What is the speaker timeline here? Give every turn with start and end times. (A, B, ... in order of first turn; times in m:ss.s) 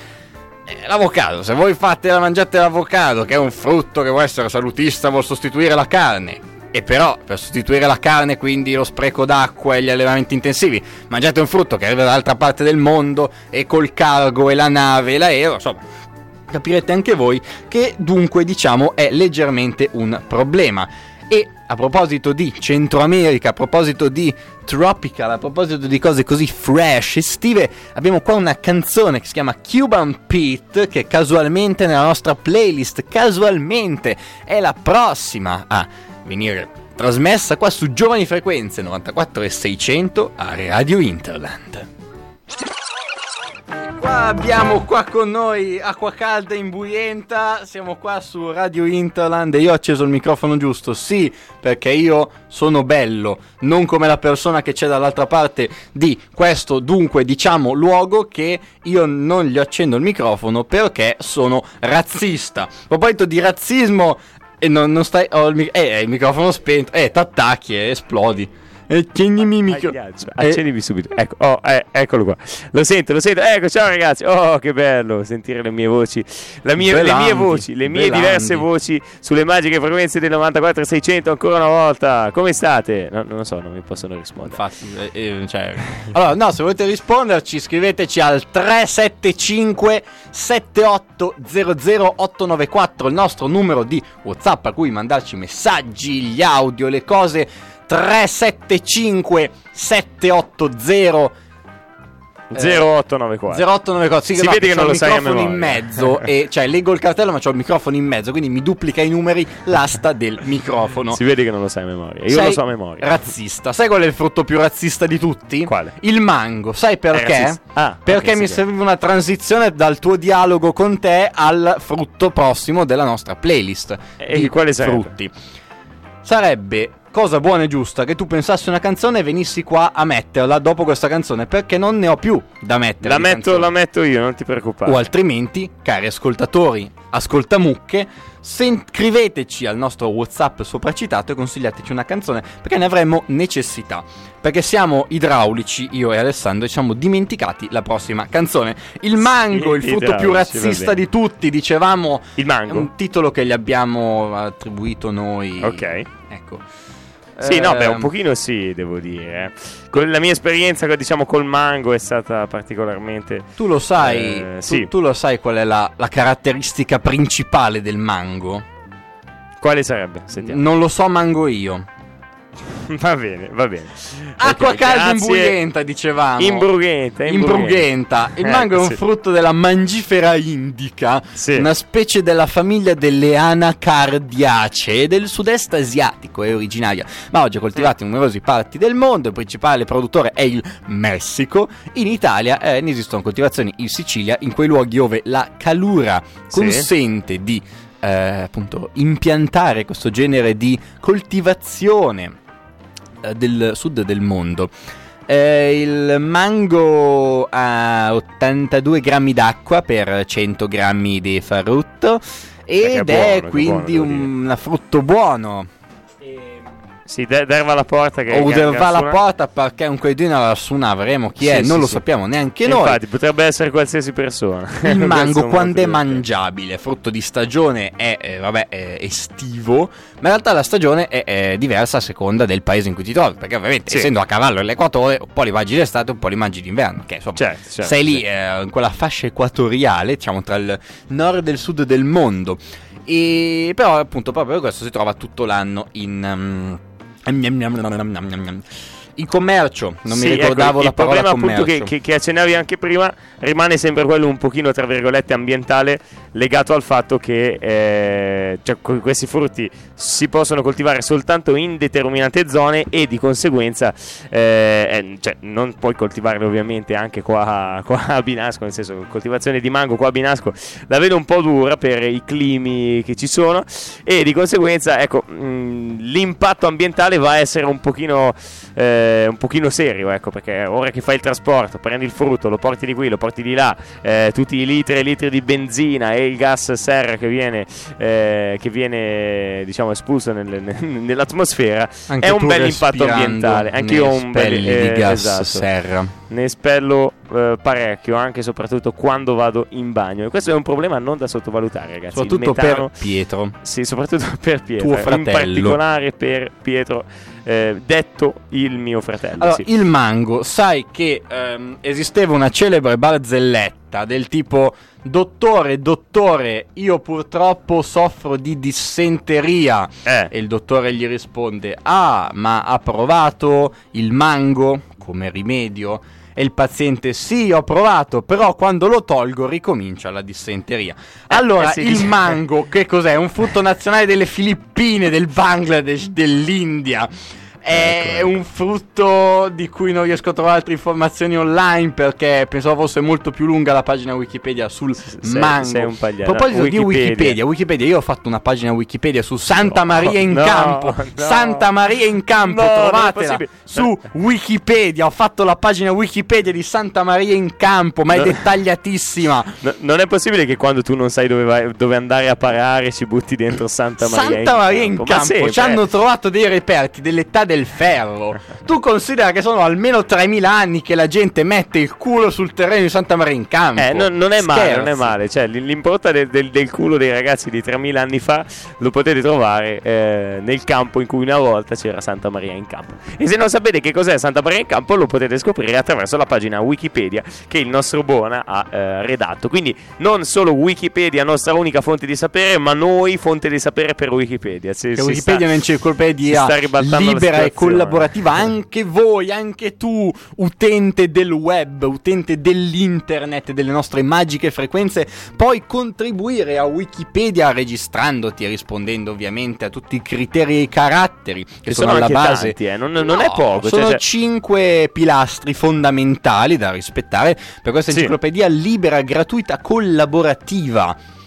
0:00.6-0:15.8 A
0:16.5-0:41.9 A
0:43.8-1:10.6 A
1:09.7-1:24.6 B
1:16.8-1:18.7 A
1:24.4-1:41.3 A
1:42.5-1:43.6 B
1:42.6-1:42.9 A
1:43.5-1:51.2 A
1:44.3-1:46.0 B
1:51.1-1:53.1 B
1:52.3-2:05.3 A
1:55.6-1:55.9 B
1:57.1-1:58.6 B
2:04.2-2:05.1 B
2:06.2-2:13.7 A
2:13.0-2:15.0 B
2:14.8-2:36.6 A
2:29.3-2:31.0 B
2:32.4-2:32.9 B
2:35.6-2:36.1 B
2:37.4-2:38.1 A
2:37.4-2:44.9 B
2:43.6-2:48.6 A
2:49.6-2:50.6 B
2:50.4-2:51.8 A
2:52.7-2:55.5 B
2:54.4-2:56.7 A
2:56.4-2:59.0 B
2:57.2-3:22.4 A
3:01.4-3:01.6 B
3:16.5-3:16.9 B
3:23.2-3:24.7 A
3:25.3-3:35.7 A
3:32.8-3:34.3 B
3:37.1-3:39.2 B
3:38.3-3:43.0 A
3:41.4-3:42.0 B
3:42.6-3:46.2 B
3:44.8-4:11.9 A
3:57.4-3:58.2 B
4:10.1-4:55.6 B
4:52.1-4:56.1 A
4:56.3-5:02.9 B
5:02.1-5:03.6 A
5:03.6-5:09.6 B
5:04.8-5:05.8 A
5:09.4-5:37.1 A
5:31.3-5:32.3 B
5:37.6-5:59.5 A
5:37.7-5:38.4 B
5:45.2-5:47.4 B
5:49.7-5:51.7 B
5:52.4-5:53.9 B
5:58.1-5:58.4 B
5:59.6-6:05.8 B
6:04.0-6:15.1 A
6:13.8-6:35.5 B
6:34.9-7:01.0 A
6:36.3-6:38.1 B
6:51.7-6:54.0 B